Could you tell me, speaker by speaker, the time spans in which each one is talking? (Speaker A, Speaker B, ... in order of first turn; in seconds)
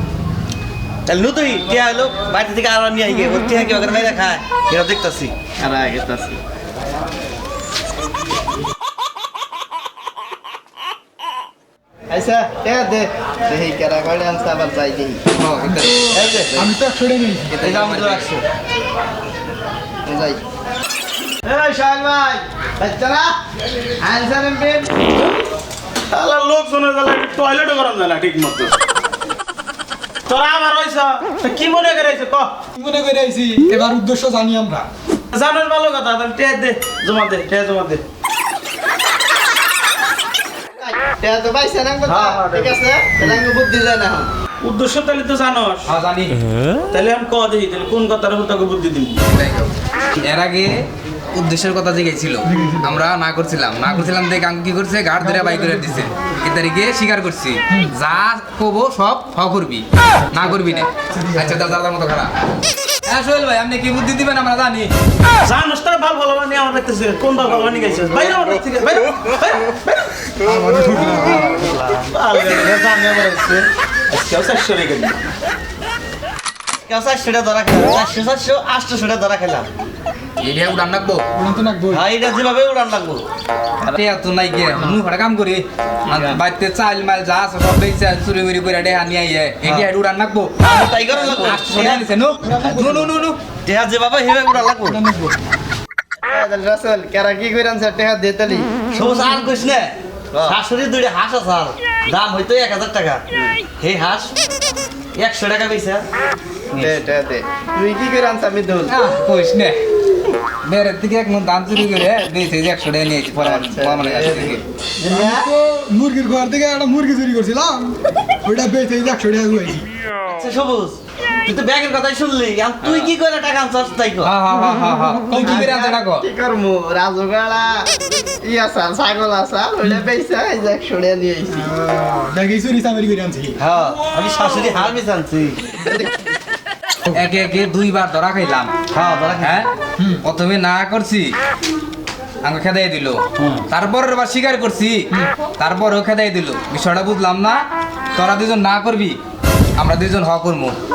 Speaker A: 1.1-5.3, 16.1-16.6, 17.6-18.4, 71.5-73.0, 76.8-79.7, 81.9-83.2, 89.6-89.9, 90.6-92.0, 92.6-93.0, 93.6-95.0, 98.9-103.2, 103.8-104.3, 105.2-106.0, 120.2-124.3, 133.6-135.6, 138.9-139.7
Speaker B: 5.6-6.4, 12.1-15.2, 20.1-20.4, 21.4-23.3, 24.0-25.2, 40.8-44.3, 96.3-98.7, 100.3-100.6, 103.3-103.6, 106.8-109.0, 113.4-115.5, 125.4-127.9, 128.4-131.7
Speaker C: 15.4-16.1, 17.5-18.3, 45.9-46.3, 49.3-49.7, 50.2-50.7, 51.3-62.3, 63.1-64.9, 80.4-81.2, 83.8-90.7, 91.3-93.4, 108.9-109.8, 110.6-114.6, 122.8-123.1, 124.2-126.2, 137.1-138.8, 139.4-139.7, 140.2-141.3, 142.4-147.6, 148.1-149.2, 149.8-150.8
Speaker D: 15.6-17.5, 32.8-34.9, 52.5-52.9, 55.2-56.1, 61.1-61.7, 70.4-71.7, 81.4-82.0, 92.4-93.1, 94.9-95.3, 115.0-119.9, 125.3-125.6, 131.6-133.5
Speaker E: 26.1-28.7, 30.3-32.5, 35.3-38.0, 42.1-42.8, 44.6-45.9, 46.9-49.2, 65.4-70.1, 72.2-75.2